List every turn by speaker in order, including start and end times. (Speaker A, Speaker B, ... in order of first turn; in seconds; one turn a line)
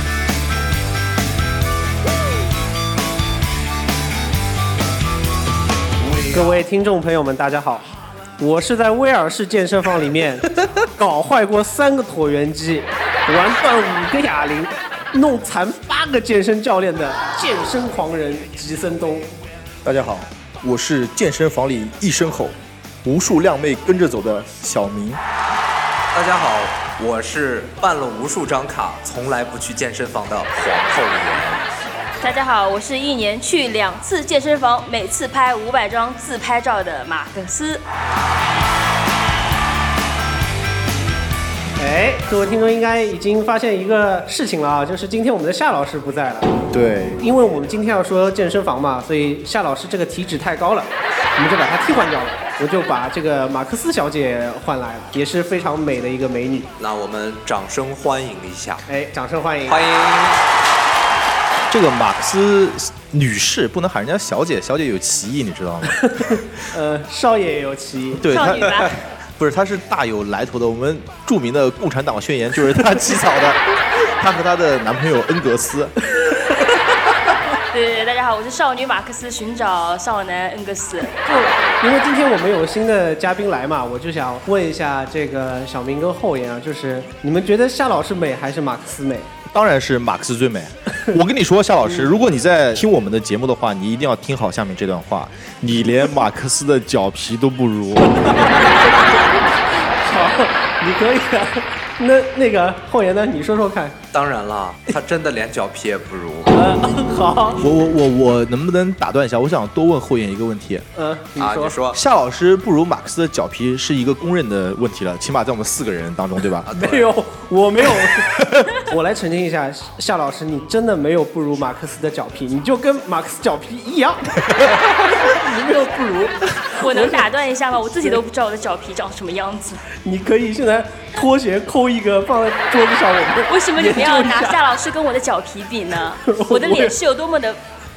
Speaker A: 6.2-7.8
Speaker A: 8.4-19.3
Speaker B: 19.8-25.2
Speaker C: 26.1-31.6
Speaker D: 32.2-37.8
Speaker A: 41.8-46.7
Speaker B: 46.7-47.2
Speaker A: 47.2-56.7
Speaker C: 56.8-58.9
Speaker A: 58.9-59.8
Speaker C: 59.7-60.4
Speaker B: 61.7-66.6
Speaker A: 66.0-68.3
Speaker B: 68.1-76.0
Speaker D: 68.3-69.0
Speaker D: 77.7-81.2
Speaker A: 81.2-89.3
Speaker C: 81.3-81.9
Speaker B: 89.5-98.8
Speaker A: 98.2-99.3
Speaker A: 100.0-104.0
Speaker C: 104.1-106.6
Speaker A: 106.5-107.6
Speaker B: 107.6-110.9
Speaker A: 111.0-111.8
Speaker C: 111.4-112.0
Speaker B: 111.9-116.7
Speaker C: 116.7-117.1
Speaker A: 116.7-127.3
Speaker B: 118.0-118.8
Speaker D: 126.8-129.8
Speaker A: 130.0-134.6
Speaker D: 133.5-137.6
Speaker A: 136.2-137.0